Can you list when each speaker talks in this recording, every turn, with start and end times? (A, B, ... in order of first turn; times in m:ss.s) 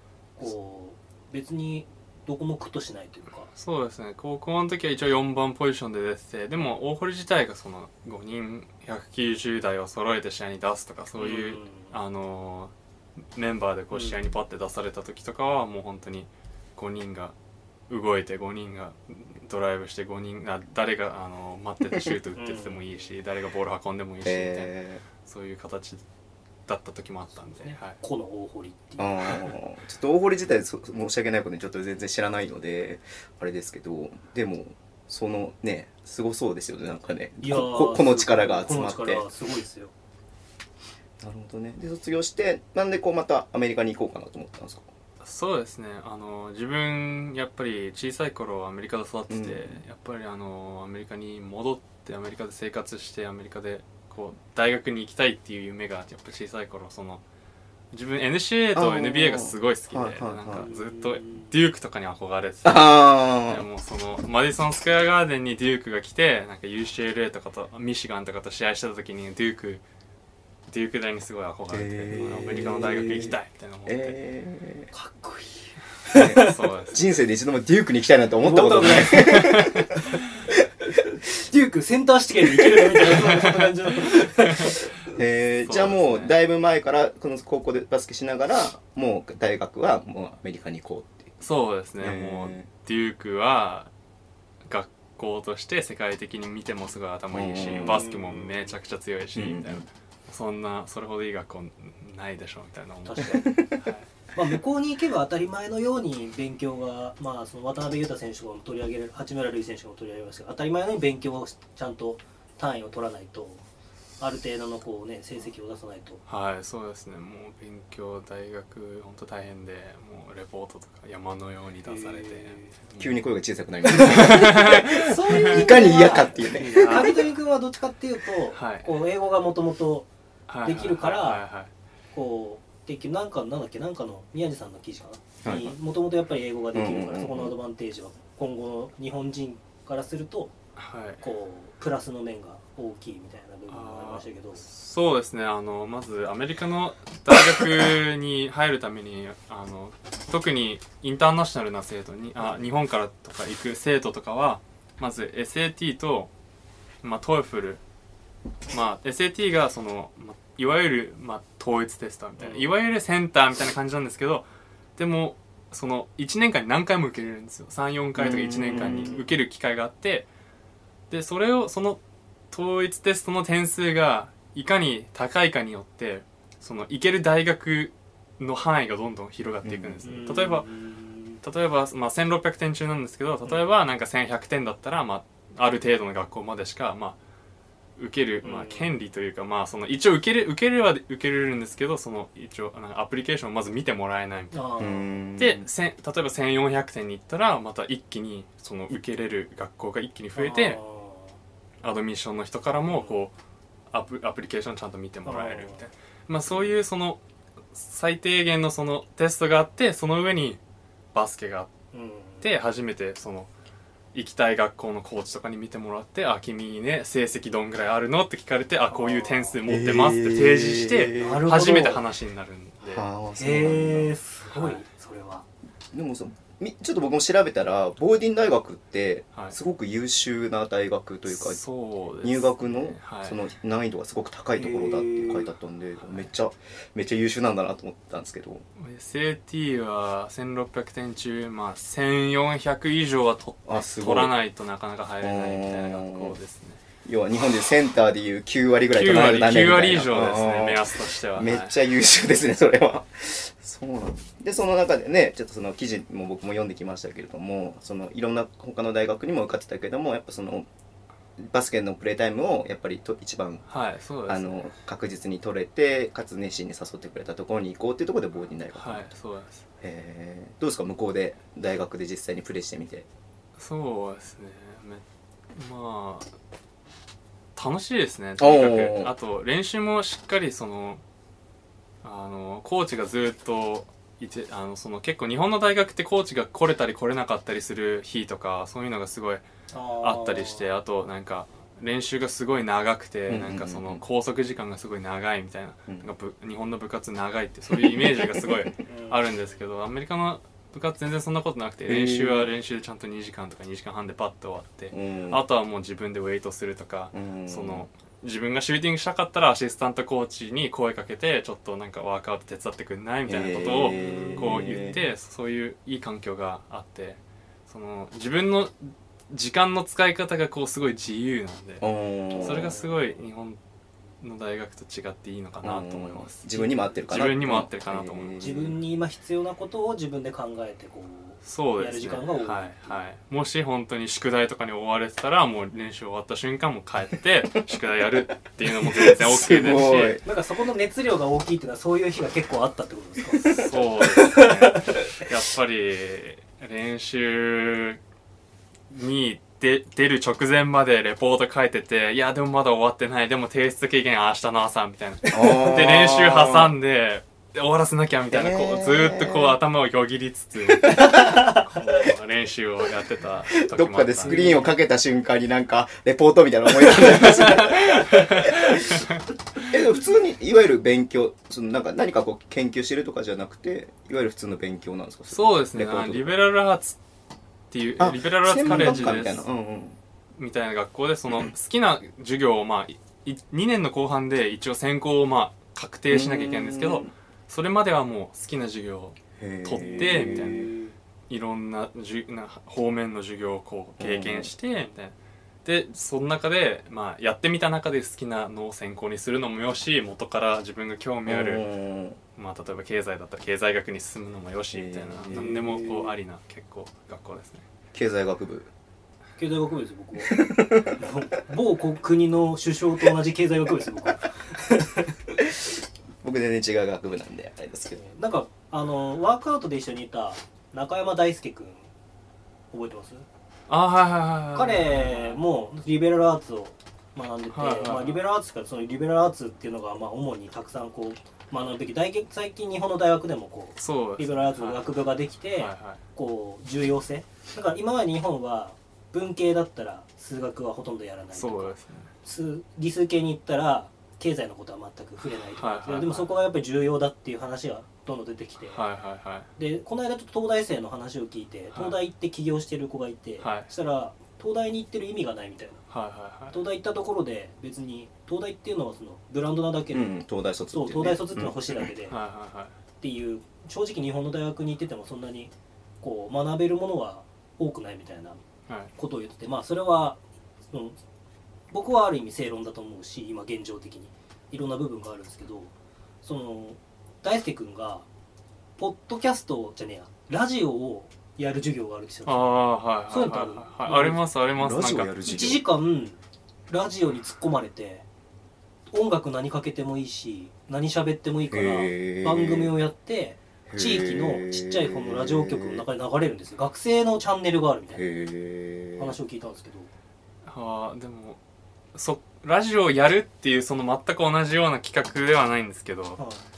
0:00.4-0:03.5 A
0:03.5-0:12.7 B
0:11.2-0:11.9 A
0:13.3-0:17.3 B
0:17.9-0:26.0 B
0:22.4-0:23.0 A
0:24.2-0:25.0 C
0:26.7-0:28.0 B
0:27.5-0:29.5 A
0:29.0-0:39.2 C
0:37.4-0:39.9 A
0:41.2-0:44.9 C
0:45.2-0:57.2 B
0:49.3-0:49.8 C
0:57.9-1:09.8 B
0:58.7-1:00.7 C
1:00.6-1:01.5 A
1:02.6-1:03.6 C
1:10.7-1:14.2 B
1:11.7-1:14.9 C
1:12.1-1:13.3 A
1:14.9-1:16.6 A
1:16.1-1:19.9 C
1:16.2-1:17.0 B
1:18.4-1:19.7 A
1:19.1-1:19.9 B
1:21.2-1:24.9 A
1:23.3-1:23.7 B
1:25.1-1:31.4 C
1:25.6-1:26.3 B
1:31.4-1:33.9 B
1:32.0-1:32.7 C
1:34.6-1:44.1 B
1:37.3-1:38.0 C
1:37.8-1:38.8 A
1:39.3-1:39.8 C
1:43.0-1:43.5 A
1:43.3-1:43.8 C
1:44.3-1:53.6 A
1:54.2-1:56.2 A
1:56.3-2:03.0 B
2:01.8-2:02.8 A
2:03.0-2:07.3 C
2:03.8-2:10.1 A
2:04.0-2:07.2 B
2:08.5-2:08.9 B
2:10.5-2:11.7 B
2:10.6-2:11.4 A
2:12.1-2:20.5 A
2:15.4-2:15.7 C
2:16.7-2:17.6 C
2:20.8-2:21.2 B
2:21.2-2:24.6 A
2:23.7-2:36.3 B
2:37.0-2:37.8 B
2:38.7-2:44.4 B
2:42.4-2:42.7 A
2:45.0-2:50.3 B
2:48.2-2:49.2 C
2:48.7-2:49.2 A
2:51.1-2:52.0 B
2:52.5-3:00.7 B
2:59.6-3:00.0 C
3:00.0-3:01.4 A
3:01.4-3:07.2 B
3:08.0-3:14.5 B
3:08.4-3:08.9 A
3:14.5-3:15.2 A
3:14.8-3:15.7 C
3:15.4-3:20.8 B
3:20.4-3:21.3 A
3:21.8-3:23.3 B
3:22.9-3:23.2 A
3:23.9-3:27.2 B
3:25.2-3:25.8 A
3:27.7-3:30.6 B
3:31.1-3:31.7 B
3:31.9-3:32.4 A
3:32.4-3:33.5 B
3:34.1-3:43.1 B
3:38.9-3:39.6 A
3:39.6-3:41.4 C
3:41.2-3:42.0 A
3:42.8-3:44.2 C
3:43.4-3:45.4 A
3:44.5-3:44.8 B
3:45.9-3:51.6 C
3:51.3-3:53.4 B
3:52.2-3:58.6 C
3:54.6-3:55.5 A
3:56.0-3:56.3 B
3:58.8-4:06.8 B
4:03.7-4:04.3 C
4:05.2-4:06.4 C
4:07.0-4:20.7 C
4:08.9-4:11.8 B
4:21.4-4:23.6 C
4:23.7-4:24.7 B
4:24.2-4:29.1 C
4:28.7-4:29.6 B
4:29.8-4:33.1 C
4:33.6-4:36.3 B
4:37.5-4:41.0 B
4:38.4-4:39.1 C
4:42.0-4:49.4 B
4:49.7-4:50.7 A
4:50.0-5:21.9 B
4:53.3-4:54.0 C
4:57.7-4:58.7 C
4:58.8-4:59.6 A
5:01.8-5:02.5 C
5:04.9-5:05.4 C
5:07.1-5:07.9 C
5:13.2-5:15.0 C
5:13.9-5:15.0 A
5:21.8-5:22.8 C
5:22.3-5:23.1 A
5:22.4-5:23.6 B
5:24.2-5:28.4 B
5:25.6-5:28.8 C
5:28.4-5:33.0 A
5:31.4-5:40.2 B
5:38.6-5:40.2 C
5:40.2-5:45.0 A
5:43.5-5:48.0 B
5:48.9-6:04.6 B
5:55.3-5:56.7 C
5:55.4-5:55.6 A
5:58.3-5:59.6 C
6:01.0-6:01.6 A
6:01.0-6:01.4 C
6:03.6-6:09.0 C
6:04.2-6:04.7 A
6:07.1-6:09.7 B
6:09.7-6:16.3 C
6:15.3-6:17.0 B
6:17.7-6:19.4 B
6:18.0-6:20.0 C
6:20.4-6:30.7 B
6:26.1-6:27.1 C
6:29.4-6:30.7 C
6:29.8-6:30.9 A
6:31.3-6:41.6 B
6:34.0-6:34.5 C
6:41.2-6:42.2 C
6:42.4-6:47.6 B
6:44.7-6:45.9 C
6:45.3-6:46.1 A
6:47.9-6:48.7 C
6:49.4-6:55.2 A
6:50.2-6:51.0 C
6:56.2-6:58.0 C
6:58.0-7:01.9 A
7:02.7-7:03.2 A
7:03.7-7:05.4 B
7:04.5-7:28.8 A
7:07.5-7:08.2 B
7:13.8-7:14.9 B
7:15.5-7:16.0 B
7:21.3-7:22.1 B
7:25.5-7:26.3 B
7:28.6-7:29.5 B
7:29.6-7:35.8 A
7:33.4-7:33.7 B
7:35.9-7:36.6 B
7:36.5-7:40.1 A
7:39.9-7:41.9 C
7:40.7-7:42.2 A
7:42.1-7:42.7 B
7:43.0-7:48.4 A
7:49.0-7:50.2 A
7:50.7-7:51.0 A
7:51.7-7:55.7 A
7:56.2-7:58.0 A
7:58.8-8:02.5 A
8:02.2-8:05.1 B
8:03.1-8:04.2 A
8:04.6-8:05.6 C
8:05.2-8:08.0 A
8:08.9-8:18.0 A
8:11.5-8:12.7 C
8:13.7-8:15.8 C
8:17.9-8:19.2 C
8:19.0-8:19.9 A
8:20.4-8:21.4 B
8:21.9-8:26.2 B
8:26.2-8:26.4 A